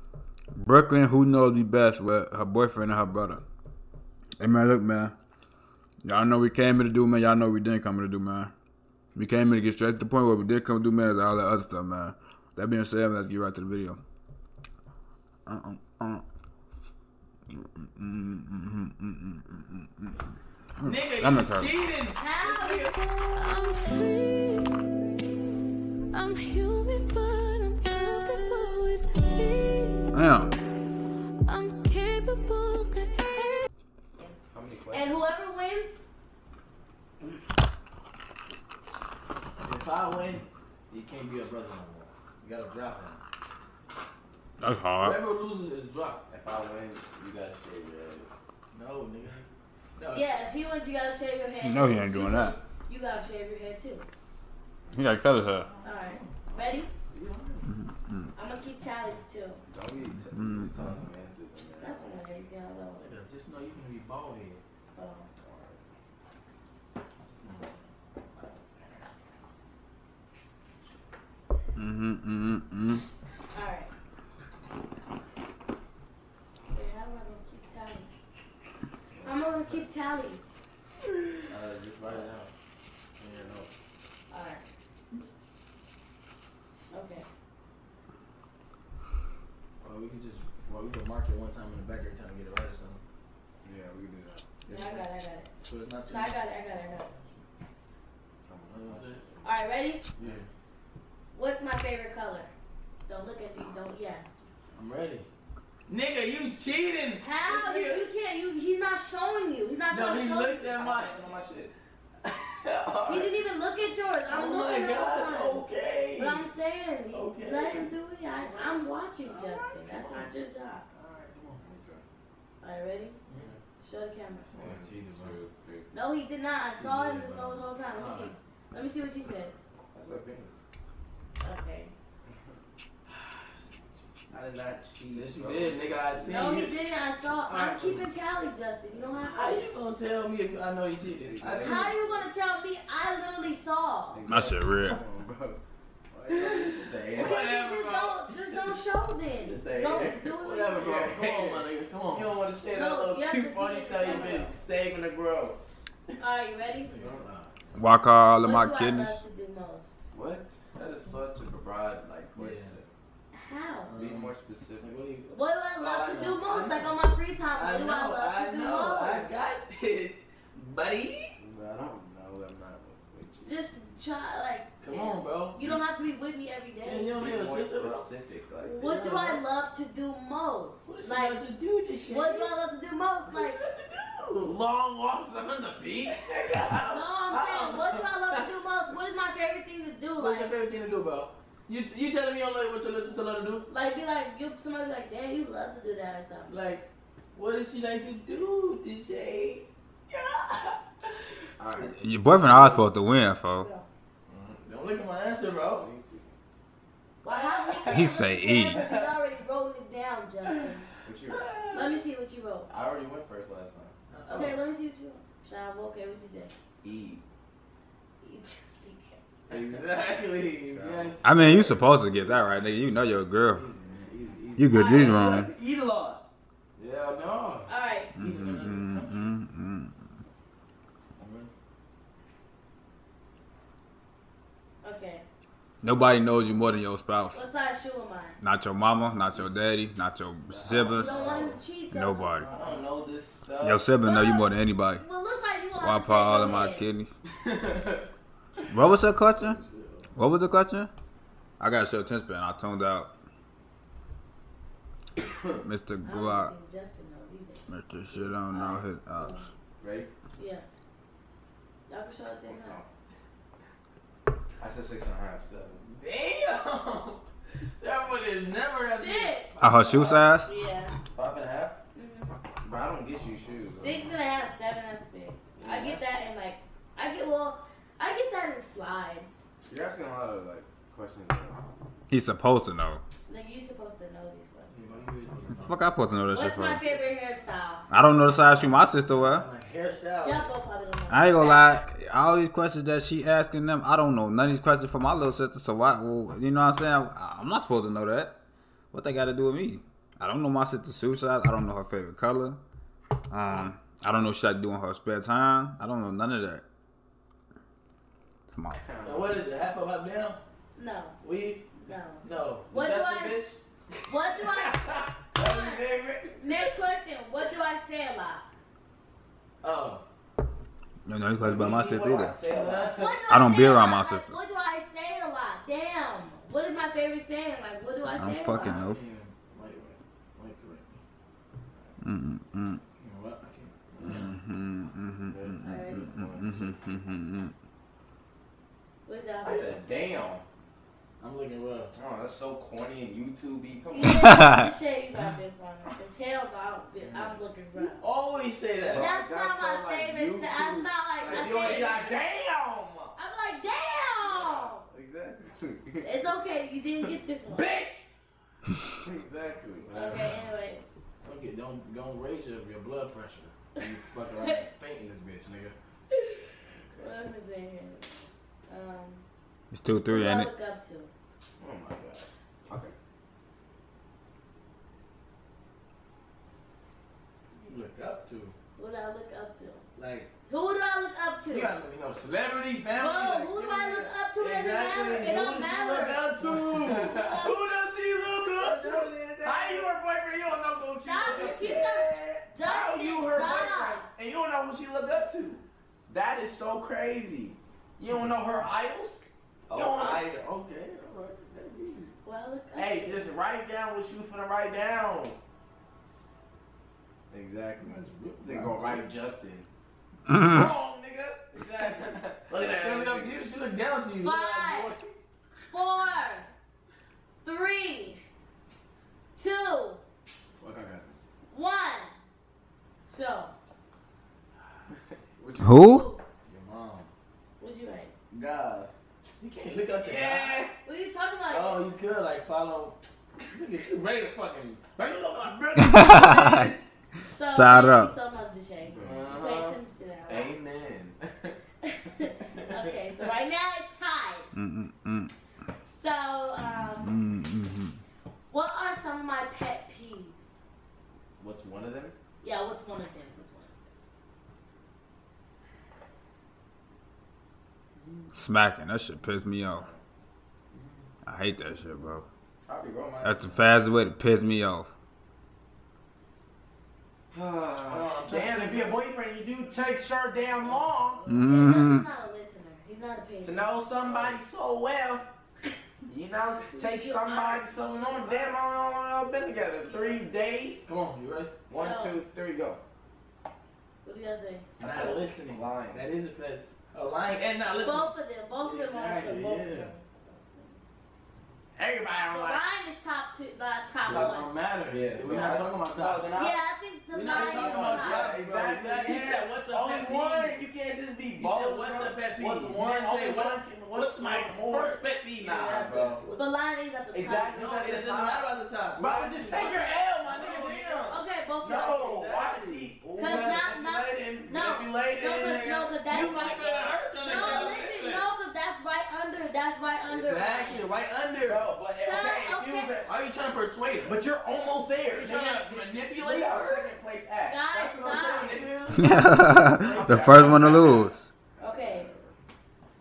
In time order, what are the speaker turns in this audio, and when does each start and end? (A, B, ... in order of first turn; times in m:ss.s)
0:00.6-0:03.4 A
0:04.4-0:05.2 A
0:06.0-0:08.5 A
0:09.1-0:14.0 A
0:15.4-0:16.2 A
0:17.5-0:20.2 A
0:20.8-0:21.7 A
0:20.8-0:23.0 B
0:22.1-0:22.9 C
0:23.0-0:24.8 D
0:26.1-0:30.1 D
0:30.1-0:30.5 A
0:31.4-0:33.7 D
0:34.5-0:35.2 E
0:34.9-0:36.0 C
0:39.6-0:43.2 B
0:44.6-0:45.2 A
0:45.0-0:46.3 B
0:46.3-0:48.3 E
0:48.7-0:49.4 B
0:50.0-0:50.5 B
0:50.1-0:54.0 C
0:51.6-0:52.6 A
0:54.9-0:55.7 A
0:55.8-0:56.9 C
0:55.9-0:56.4 B
0:57.1-0:57.7 B
0:57.9-0:58.3 A
0:58.4-0:59.6 C
0:59.7-1:02.1 E
1:00.3-1:00.7 A
1:01.8-1:03.1 C
1:03.0-1:04.6 B
1:04.9-1:05.3 C
1:05.4-1:05.8 E
1:07.4-1:07.7 B
1:11.8-1:13.0 A
1:13.5-1:13.9 C
1:16.7-1:18.3 C
1:19.1-1:19.9 E
1:19.2-1:20.6 C
1:21.5-1:22.5 E
1:22.0-1:22.3 B
1:23.2-1:23.6 B
1:23.2-1:23.7 E
1:24.3-1:24.7 C
1:26.9-1:27.3 C
1:29.8-1:33.0 B
1:33.6-1:34.5 E
1:34.7-1:35.1 B
1:34.7-1:35.5 C
1:35.6-1:36.4 B
1:36.1-1:37.1 C
1:38.4-1:39.6 E
1:38.7-1:39.2 B
1:39.4-1:40.0 C
1:40.2-1:40.5 B
1:41.3-1:42.5 C
1:43.1-1:44.3 C
1:44.7-1:45.3 B
1:45.9-1:48.1 B
1:47.2-1:50.7 C
1:49.9-1:51.4 B
1:50.7-1:51.7 E
1:52.2-1:53.4 B
1:53.0-1:55.6 C
1:54.3-1:56.5 B
1:56.2-2:00.8 C
1:57.1-2:00.3 B
2:00.9-2:01.6 B
2:01.6-2:02.0 E
2:02.6-2:03.2 C
2:03.3-2:03.5 B
2:03.8-2:04.5 C
2:04.5-2:05.4 B
2:04.5-2:05.9 E
2:05.9-2:09.5 C
2:06.8-2:08.3 B
2:09.9-2:10.5 E
2:11.4-2:11.9 C
2:13.1-2:14.0 B
2:14.3-2:16.7 E
2:15.1-2:16.8 B
2:16.2-2:19.7 C
2:17.4-2:18.1 B
2:19.2-2:22.0 B
2:21.0-2:22.3 E
2:21.5-2:24.3 C
2:24.1-2:25.6 E
2:24.2-2:25.0 A
2:26.1-2:27.4 E
2:26.3-2:28.8 B
2:27.1-2:31.0 C
2:29.4-2:35.6 E
2:30.4-2:32.4 B
2:32.7-2:34.5 C
2:34.0-2:34.5 B
2:36.2-2:37.0 C
2:36.8-2:37.8 B
2:37.0-2:37.3 E
2:37.8-2:39.2 A
2:38.4-2:40.0 C
2:40.1-2:42.9 E
2:42.3-2:42.8 B
2:43.3-2:43.9 C
2:43.8-2:51.3 B
2:43.9-2:45.0 E
2:45.3-2:49.4 C
2:51.4-2:53.6 E
2:53.4-2:57.1 C
2:54.8-2:55.8 B
2:56.8-2:58.1 B
2:57.1-2:58.8 E
2:58.6-3:01.4 C
2:58.8-2:59.4 B
3:00.8-3:02.5 B
3:02.1-3:03.6 C
3:03.3-3:04.6 B
3:04.4-3:06.8 E
3:06.0-3:07.4 B
3:06.9-3:10.6 C
3:07.3-3:08.4 E
3:10.2-3:13.7 B
3:13.7-3:16.5 C
3:16.5-3:21.4 B
3:21.6-3:21.9 E
3:21.9-3:23.7 A
3:22.4-3:22.8 B
3:23.6-3:23.9 C
3:24.3-3:25.9 B
3:25.8-3:26.3 E
3:27.2-3:30.8 C
3:27.3-3:28.2 B
3:27.9-3:28.8 A
3:28.7-3:29.1 B
3:31.0-3:31.5 E
3:31.3-3:32.0 B
3:31.7-3:32.7 C
3:32.7-3:33.9 E
3:34.1-3:34.6 B
3:34.3-3:36.5 C
3:36.8-3:37.2 E
3:38.2-3:39.2 C
3:39.5-3:41.8 B
3:39.5-3:39.9 E
3:40.6-3:41.9 E
3:41.2-3:43.6 A
3:43.5-3:44.7 B
3:44.6-3:45.5 A
3:44.7-3:45.4 C
3:44.9-3:46.2 E
3:46.8-3:49.3 B
3:47.7-3:48.1 C
3:48.2-3:49.9 A
3:51.2-3:51.5 B
3:54.8-3:55.2 C
3:55.8-3:57.4 A
3:57.3-3:58.4 C
3:58.4-4:01.2 A
4:00.6-4:01.6 B
4:00.7-4:01.6 E
4:00.8-4:02.5 C
4:01.9-4:02.5 A
4:02.4-4:02.9 B
4:02.5-4:03.8 E
4:03.6-4:05.0 A
4:04.0-4:06.8 C
4:05.8-4:07.1 A
4:07.4-4:08.1 B
4:08.7-4:09.6 A
4:09.3-4:10.1 B
4:10.2-4:10.9 A
4:11.6-4:13.1 A
4:15.6-4:16.5 A
4:16.0-4:17.6 C
4:17.7-4:19.4 A
4:18.5-4:19.5 C
4:19.8-4:20.1 E
4:20.4-4:20.6 C
4:21.9-4:22.8 C
4:22.5-4:22.9 E
4:24.6-4:25.8 E
4:25.8-4:27.2 B
4:27.8-4:30.3 B
4:28.8-4:29.5 C
4:29.6-4:30.5 A
4:30.5-4:30.9 C
4:31.1-4:31.8 E
4:31.9-4:32.3 C
4:32.6-4:34.2 E
4:33.7-4:39.5 C
4:35.6-4:36.2 E
4:39.7-4:41.7 E
4:42.1-4:43.0 A
4:43.3-4:44.7 C
4:44.7-4:45.9 B
4:45.6-4:46.8 A
4:46.3-4:47.9 C
4:47.9-4:49.5 A
4:48.5-4:50.5 B
4:50.2-4:51.8 C
4:51.1-4:58.4 A
4:58.9-5:02.6 A
5:03.3-5:06.6 A
5:08.5-5:08.8 A
5:08.8-5:09.4 E
5:09.0-5:10.4 B
5:10.8-5:11.2 C
5:11.2-5:11.7 B
5:11.7-5:13.5 C
5:12.2-5:12.7 B
5:12.7-5:13.6 E
5:14.1-5:15.8 C
5:14.7-5:16.4 E
5:16.4-5:18.4 C
5:19.6-5:20.0 B
5:21.1-5:22.4 A
5:21.4-5:23.0 E
5:22.5-5:23.3 B
5:22.9-5:28.9 C
5:23.3-5:24.3 A
5:28.1-5:29.0 A
5:28.6-5:31.0 B
5:32.0-5:32.8 A
5:33.0-5:34.4 B
5:34.0-5:34.3 E
5:34.1-5:37.5 A
5:35.3-5:36.8 E
5:35.6-5:36.1 C
5:39.0-5:39.8 C
5:39.4-5:40.4 E
5:41.2-5:41.9 B
5:41.9-5:44.4 E
5:43.9-5:48.1 C
5:44.1-5:44.5 A
5:47.0-5:47.4 E
5:47.8-5:49.1 B
5:48.8-5:53.2 E
5:48.9-5:52.2 C
5:51.2-5:51.8 B
5:53.2-5:54.8 C
5:54.2-5:56.1 E
5:56.0-5:57.7 C
5:57.5-5:58.0 B
5:59.0-6:00.4 E
5:59.9-6:00.9 C
6:01.2-6:05.8 B
6:04.3-6:04.6 C
6:06.1-6:09.2 C
6:06.8-6:07.2 E
6:09.7-6:10.5 A
6:10.1-6:11.1 C
6:11.6-6:12.9 E
6:17.6-6:18.6 B
6:18.8-6:19.8 C
6:20.0-6:20.3 B
6:20.5-6:21.8 C
6:21.5-6:24.1 B
6:23.0-6:26.4 C
6:24.4-6:40.2 E
6:25.1-6:27.5 B
6:27.1-6:27.7 C
6:28.4-6:29.9 B
6:31.0-6:34.1 C
6:31.2-6:32.0 B
6:33.2-6:33.7 B
6:39.7-6:42.1 B
6:42.2-6:43.3 C
6:42.8-6:45.4 E
6:47.3-6:49.7 E
6:47.8-6:49.0 B
6:50.3-6:53.4 E
6:51.7-6:55.2 B
6:54.2-6:54.9 C
6:55.7-6:56.5 C
6:57.4-6:58.2 C
6:59.4-7:00.0 C
7:00.6-7:01.2 B
7:01.5-7:02.2 C
7:03.1-7:03.5 C
7:05.4-7:05.9 E
7:05.6-7:06.0 A
7:05.8-7:06.2 C
7:06.5-7:07.1 B
7:07.6-7:08.1 C
7:08.3-7:08.9 E
7:09.4-7:10.7 B
7:10.0-7:10.8 E
7:10.8-7:11.8 C
7:11.5-7:15.8 B
7:15.7-7:16.8 E
7:15.9-7:16.7 A
7:17.3-7:20.6 C
7:17.5-7:18.2 A
7:18.8-7:19.8 E
7:19.0-7:19.6 B
7:20.3-7:21.2 E
7:21.8-7:24.5 C
7:24.5-7:25.3 A
7:25.8-7:27.2 C
7:27.0-7:28.0 A
7:28.5-7:30.6 C
7:31.4-7:32.2 E
7:32.4-7:33.7 C
7:38.0-7:38.2 B
7:38.3-7:39.9 A
7:39.7-7:40.0 E
7:40.7-7:41.0 B
7:41.2-7:42.2 A
7:42.7-7:43.6 E
7:43.2-7:44.9 A
7:47.3-7:51.2 E
7:47.9-7:49.0 B
7:50.6-7:51.5 B
7:51.3-7:52.1 A
7:51.5-7:53.8 C
7:53.4-7:55.3 E
7:54.0-7:54.4 B
7:56.0-8:00.9 E
7:56.6-7:58.4 C
7:58.0-7:58.4 B
7:59.8-8:00.3 C
8:00.8-8:01.6 B
8:01.7-8:02.8 E
8:01.7-8:02.2 C
8:04.0-8:04.7 C
8:04.8-8:06.1 E
8:04.8-8:09.9 B
8:07.8-8:10.8 C
8:11.8-8:12.6 E
8:12.3-8:14.5 C
8:14.0-8:16.4 B
8:14.9-8:16.6 E
8:15.2-8:15.7 C
8:16.3-8:18.4 C
8:17.1-8:20.7 B
8:17.2-8:26.2 E
8:21.4-8:26.5 B
8:26.4-8:27.6 C
8:27.1-8:37.9 E
8:27.5-8:31.2 B
8:29.5-8:30.0 C
8:31.1-8:32.2 C
8:32.1-8:33.6 B
8:33.1-8:36.6 C
8:34.4-8:38.3 B
8:37.2-8:40.9 C
8:40.0-8:41.7 B
8:41.4-8:43.1 E
8:41.8-8:43.0 C
8:43.0-8:44.2 B
8:44.0-8:48.9 E
8:45.0-8:46.9 B
8:47.4-8:49.5 C
8:47.9-8:49.2 B
8:48.9-8:51.3 A
8:49.6-8:52.3 E
8:50.2-8:50.8 B
8:51.6-8:52.1 C